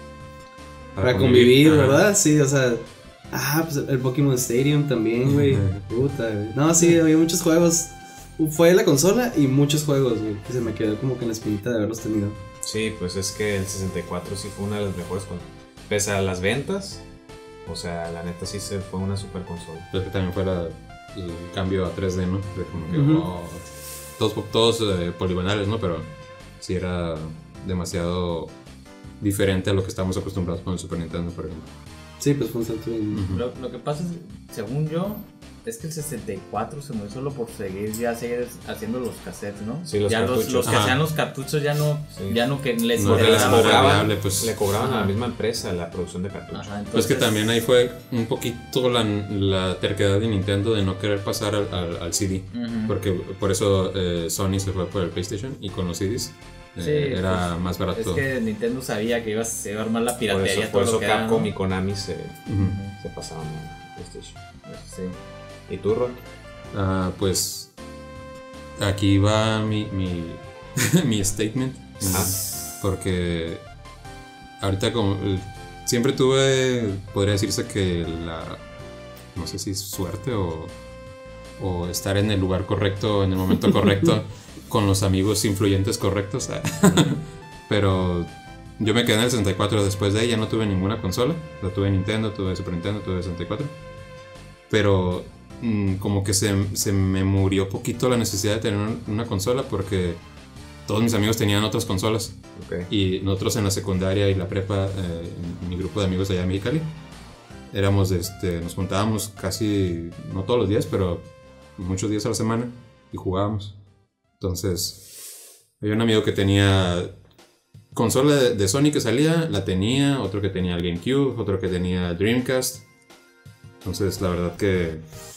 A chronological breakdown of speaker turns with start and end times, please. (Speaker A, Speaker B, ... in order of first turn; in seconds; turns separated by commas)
Speaker A: 0.9-2.0, Speaker B: 1.0-12.4, Speaker A: 5.2-5.8, Speaker C: 12.6-17.0, Speaker C: 17.6-19.9, Speaker A: 19.9-23.6, Speaker B: 22.9-23.3, Speaker A: 24.2-26.1, Speaker A: 26.6-28.5, Speaker A: 29.2-31.7, Speaker B: 32.2-33.2, Speaker A: 33.1-33.4, Speaker D: 33.3-44.1, Speaker C: 39.9-40.8, Speaker A: 40.6-41.0, Speaker C: 42.1-42.4, Speaker A: 43.0-44.5, Speaker C: 43.0-46.7, Speaker D: 44.8-45.1, Speaker D: 46.5-47.4, Speaker A: 46.9-58.2, Speaker D: 52.5-52.9, Speaker D: 56.8-61.5, Speaker C: 60.3-62.4, Speaker A: 62.5-62.8, Speaker D: 62.6-63.0, Speaker C: 62.9-64.4, Speaker D: 64.7-65.2, Speaker C: 65.7-66.2, Speaker A: 66.7-67.7, Speaker A: 68.8-73.6, Speaker C: 72.0-72.3, Speaker A: 74.6-78.6, Speaker A: 79.3-80.7, Speaker A: 81.6-93.7, Speaker A: 94.7-100.2, Speaker A: 100.8-102.3, Speaker C: 102.5-102.9, Speaker A: 102.9-106.9, Speaker A: 107.7-111.2, Speaker A: 111.8-113.7, Speaker A: 114.4-115.0, Speaker A: 115.8-117.1, Speaker A: 117.9-122.8, Speaker A: 123.8-125.0